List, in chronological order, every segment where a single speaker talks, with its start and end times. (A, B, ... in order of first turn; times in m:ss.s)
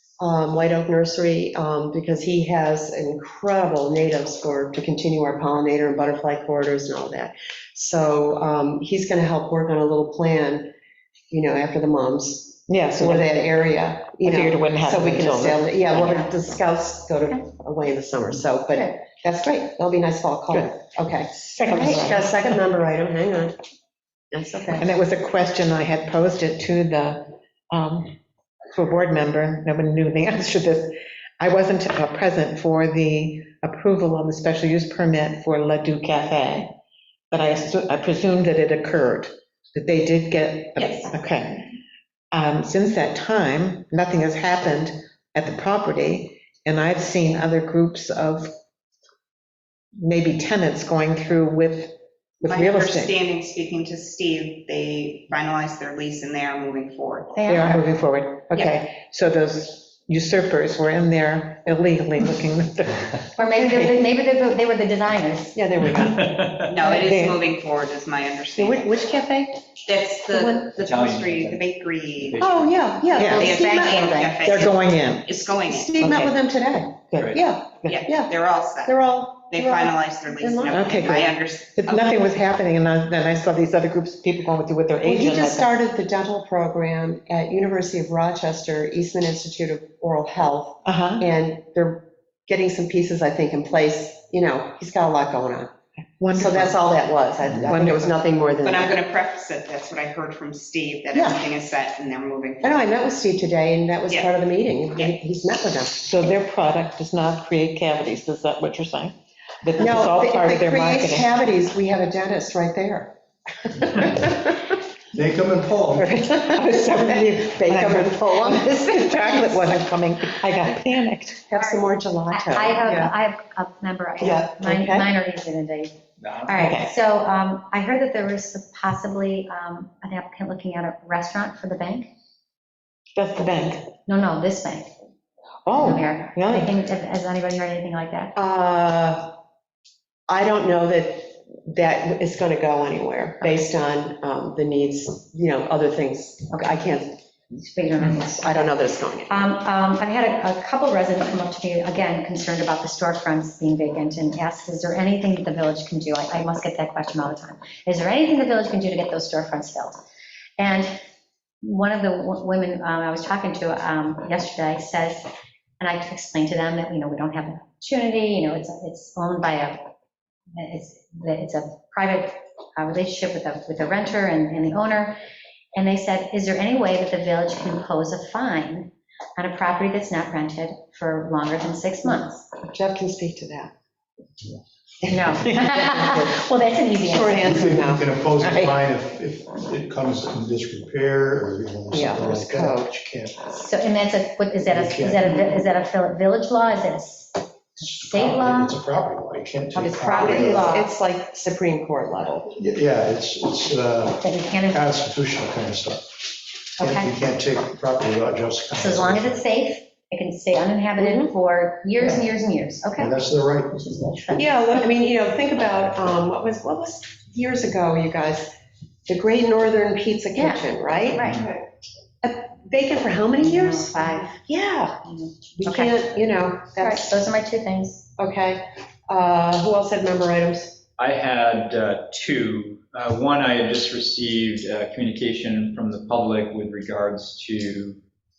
0:00.2-0:10.7 A
0:11.3-0:23.6 A
0:12.7-0:13.2 B
0:14.2-0:15.6 B
0:15.9-0:16.3 C
0:21.3-0:22.3 B
0:24.3-0:24.9 A
0:24.8-0:28.2 B
0:28.7-0:36.7 B
0:37.3-0:41.7 B
0:40.8-0:41.1 D
0:42.3-0:48.5 B
0:50.0-0:53.1 B
0:52.4-0:57.8 D
0:57.4-0:57.7 C
0:57.5-1:03.2 B
1:03.4-1:05.6 C
1:03.5-1:04.0 A
1:05.5-1:06.6 A
1:05.8-1:06.7 E
1:06.7-1:08.9 D
1:06.8-1:07.4 B
1:08.6-1:09.6 A
1:09.8-1:12.4 D
1:10.3-1:10.7 A
1:10.7-1:11.6 E
1:12.2-1:13.0 E
1:12.4-1:14.5 A
1:13.1-1:16.0 D
1:13.2-1:13.6 B
1:14.4-1:15.3 B
1:15.7-1:18.3 A
1:15.9-1:16.4 B
1:17.1-1:17.4 B
1:17.8-1:18.9 D
1:18.8-1:21.0 A
1:19.5-1:22.1 D
1:20.7-1:25.7 B
1:25.0-1:35.7 A
1:30.8-1:31.2 B
1:36.2-1:36.7 B
1:36.3-1:39.0 A
1:37.6-1:38.2 B
1:38.6-1:42.8 D
1:41.1-1:41.4 A
1:42.6-1:46.0 A
1:46.0-1:51.3 B
1:49.8-1:54.7 A
1:55.1-1:56.0 F
1:56.0-1:59.8 A
1:56.3-2:01.4 B
2:01.5-2:03.1 A
2:01.6-2:05.9 C
2:04.2-2:05.1 A
2:06.2-2:06.6 E
2:06.4-2:12.1 C
2:06.6-2:06.9 B
2:13.2-2:13.9 B
2:14.0-2:14.9 C
2:15.6-2:16.7 B
2:15.7-2:18.3 C
2:18.3-2:19.3 A
2:20.3-2:27.2 A
2:27.5-2:28.4 C
2:28.0-2:29.5 A
2:29.3-2:40.0 C
2:40.6-2:41.0 C
2:41.6-2:49.9 C
2:50.6-2:55.2 C
2:55.7-3:02.5 C
3:02.0-3:03.7 A
3:05.0-3:05.4 A
3:05.1-3:07.6 C
3:05.4-3:05.8 B
3:07.0-3:08.0 A
3:07.4-3:13.5 F
3:08.4-3:08.7 B
3:11.9-3:12.9 A
3:13.5-3:18.8 C
3:14.7-3:15.2 F
3:17.9-3:20.7 F
3:19.7-3:20.9 C
3:20.1-3:22.5 A
3:22.5-3:29.4 F
3:24.2-3:24.9 C
3:26.8-3:27.1 C
3:28.7-3:33.2 C
3:31.0-3:31.3 A
3:33.0-3:33.9 F
3:33.9-3:34.5 C
3:34.3-3:38.5 A
3:39.1-3:41.6 A
3:40.3-3:41.4 C
3:42.2-3:47.2 A
3:43.4-3:44.4 C
3:45.2-3:45.9 C
3:46.8-3:48.1 C
3:48.2-3:50.8 A
3:51.0-3:58.0 E